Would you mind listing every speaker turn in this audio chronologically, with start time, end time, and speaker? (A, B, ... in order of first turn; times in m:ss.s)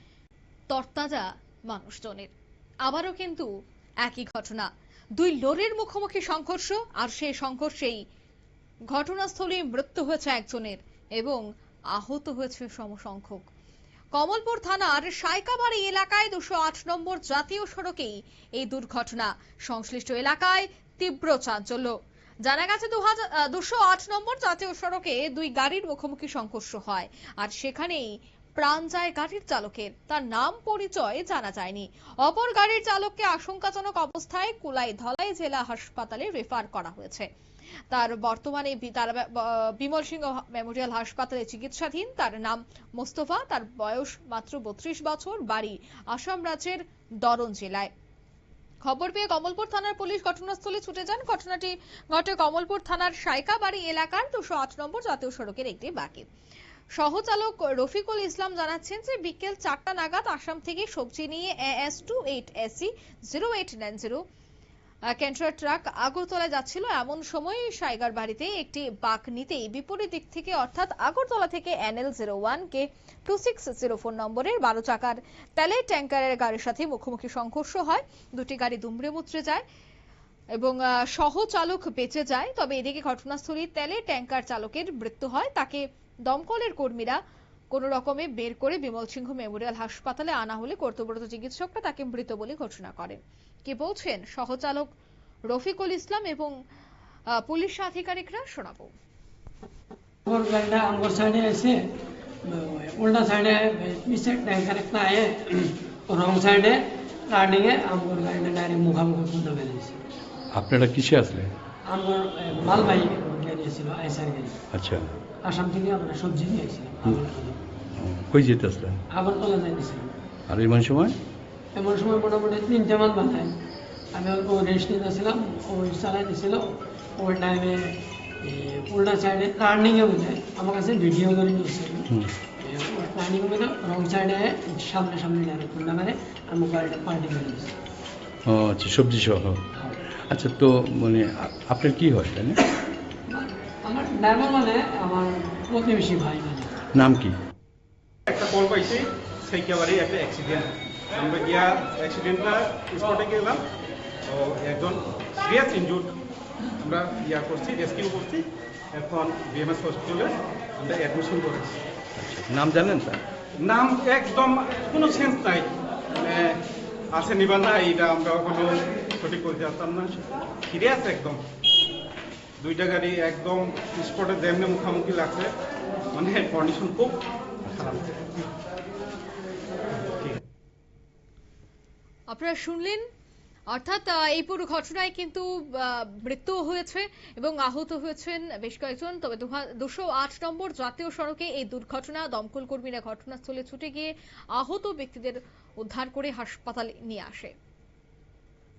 0:00.7-0:02.3 A
0:02.8-0:03.5 A
0:04.0-0:08.0 A
0:08.9-0:11.4 A
0:11.9-0:13.4 A
0:14.1-0:37.3 A
0:37.9-0:47.9 A
0:48.8-0:56.3 A
0:57.0-1:04.2 A
1:05.1-1:19.6 A
1:20.6-1:27.2 A
1:27.7-1:34.9 A
1:35.4-1:36.5 A
1:37.3-1:38.9 A
1:40.3-1:41.9 B
1:42.4-1:50.0 B
1:50.5-1:51.5 C
1:51.9-1:54.6 B
1:54.7-1:55.1 C
1:55.4-1:57.6 B
1:58.0-1:59.0 C
1:59.1-2:00.2 B
2:00.5-2:01.2 C
2:01.7-2:03.6 B
2:04.1-2:17.7 B
2:18.5-2:19.6 C
2:20.3-2:22.6 C
2:23.3-2:26.7 B
2:26.9-2:27.4 C
2:28.2-2:33.7 D
2:34.2-2:36.2 D
2:36.8-2:41.8 D
2:42.2-2:43.2 C
2:43.6-2:51.4 D
2:52.6-2:55.5 D
2:56.1-2:58.5 D
3:02.3-3:03.0 A
3:03.7-3:17.5 A